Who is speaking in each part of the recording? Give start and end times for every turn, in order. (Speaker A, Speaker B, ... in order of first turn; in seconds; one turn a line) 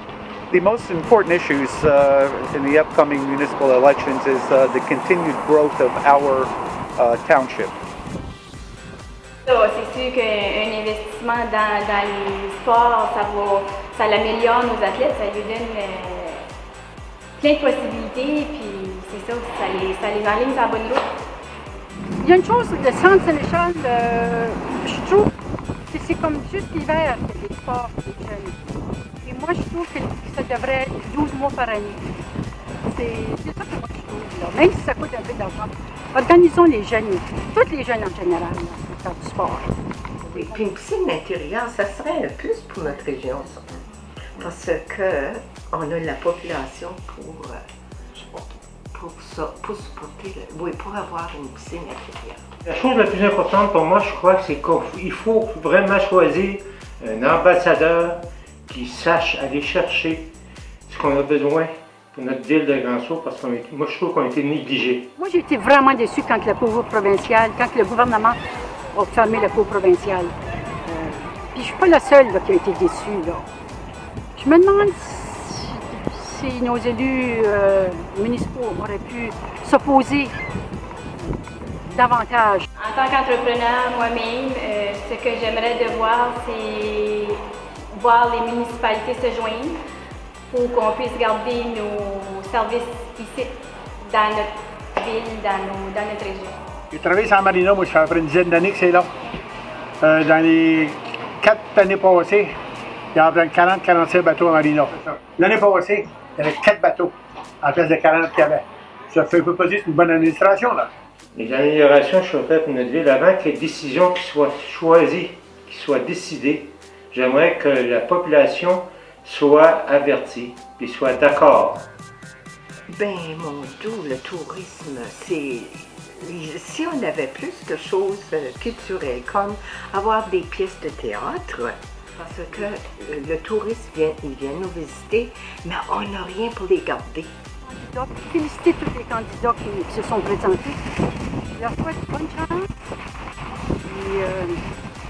Speaker A: 0.5-7.7
Speaker B: 9.4-16.4
Speaker B: 17.4-21.0
Speaker C: 22.2-25.3
Speaker C: 25.9-32.0
Speaker C: 32.8-39.8
Speaker D: 40.2-43.8
Speaker D: 44.4-47.6
Speaker D: 48.9-52.4
Speaker E: 52.6-60.3
Speaker E: 60.9-65.1
Speaker C: 65.2-68.4
Speaker C: 68.9-70.3
Speaker C: 70.8-73.5
Speaker C: 74.3-80.3
Speaker C: 81.8-82.7
Speaker B: 82.8-89.8
Speaker B: 90.5-93.5
Speaker B: 94.0-96.6
Speaker F: 96.9-99.1
Speaker F: 100.0-102.5
Speaker F: 103.1-110.9
Speaker E: 111.3-121.9
Speaker D: 122.9-137.3
Speaker C: 137.6-140.8
Speaker C: 141.5-142.7
Speaker C: 143.8-144.6